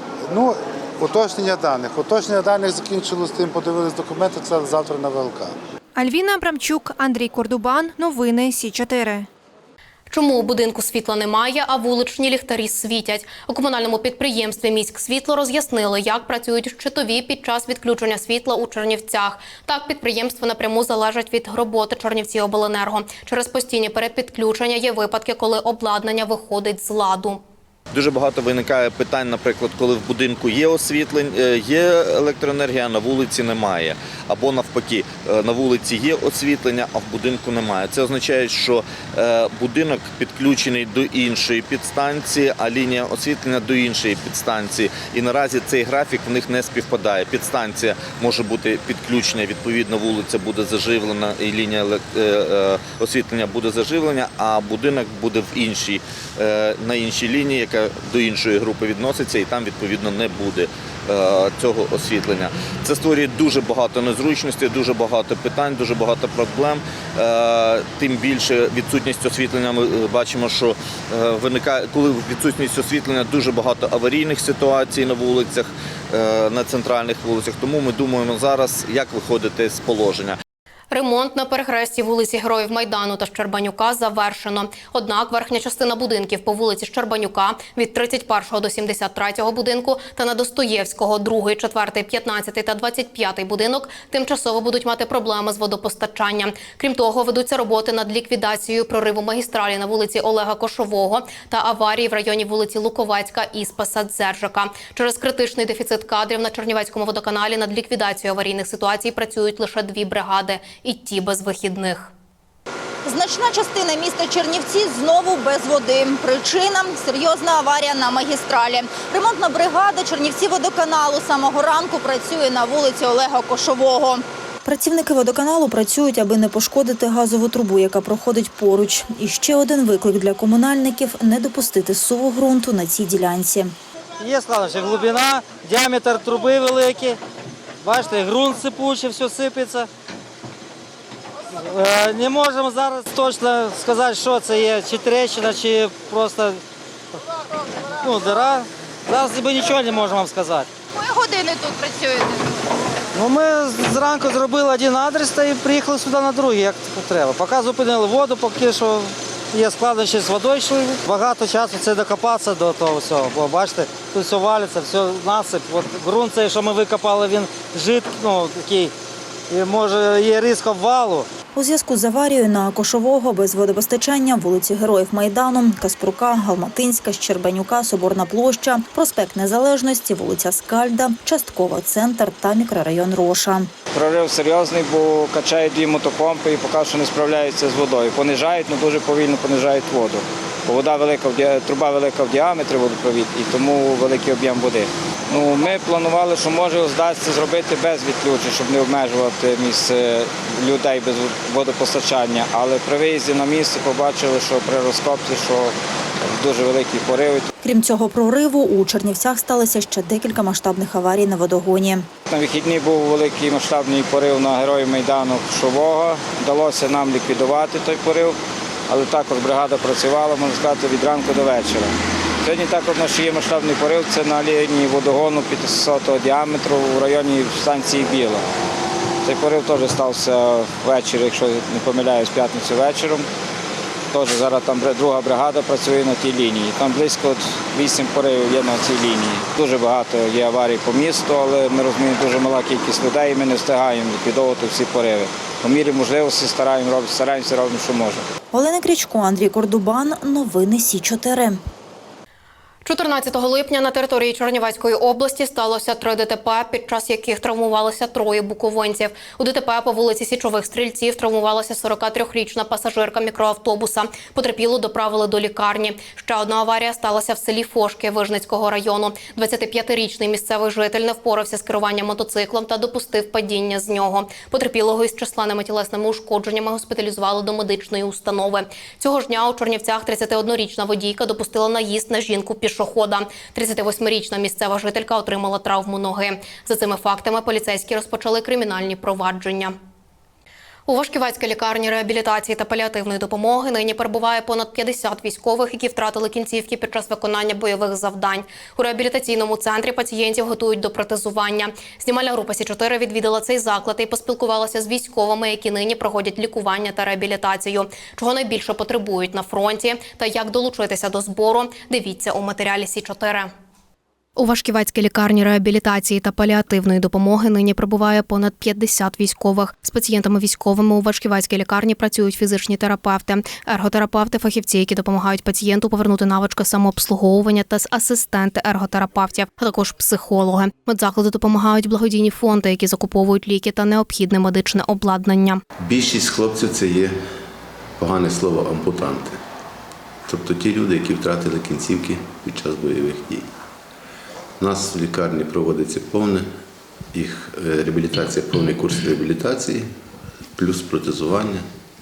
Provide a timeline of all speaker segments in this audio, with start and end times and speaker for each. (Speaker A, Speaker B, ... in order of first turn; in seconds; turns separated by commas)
Speaker A: 0.3-5.5, Speaker B: 6.0-9.3, Speaker C: 10.1-27.4, Speaker D: 27.9-80.4, Speaker C: 80.9-112.1, Speaker E: 113.0-124.2, Speaker F: 124.7-133.7, Speaker G: 134.2-137.2, Speaker G: 137.8-139.9, Speaker G: 141.7-146.6, Speaker G: 148.0-150.7, Speaker E: 151.0-152.3, Speaker G: 153.2-168.9, Speaker G: 169.6-171.2, Speaker F: 171.6-183.7, Speaker H: 183.9-205.7, Speaker H: 206.2-207.5, Speaker F: 207.7-212.1, Speaker H: 212.3-218.3, Speaker H: 218.9-228.5, Speaker H: 229.2-233.3, Speaker H: 234.1-248.3, Speaker F: 248.5-251.6, Speaker C: 252.8-289.7, Speaker C: 290.9-313.5, Speaker C: 314.4-335.6, Speaker I: 335.8-337.2, Speaker I: 338.0-339.4, Speaker I: 340.3-343.5, Speaker I: 344.6-346.5, Speaker I: 347.1-349.9, Speaker I: 350.6-351.6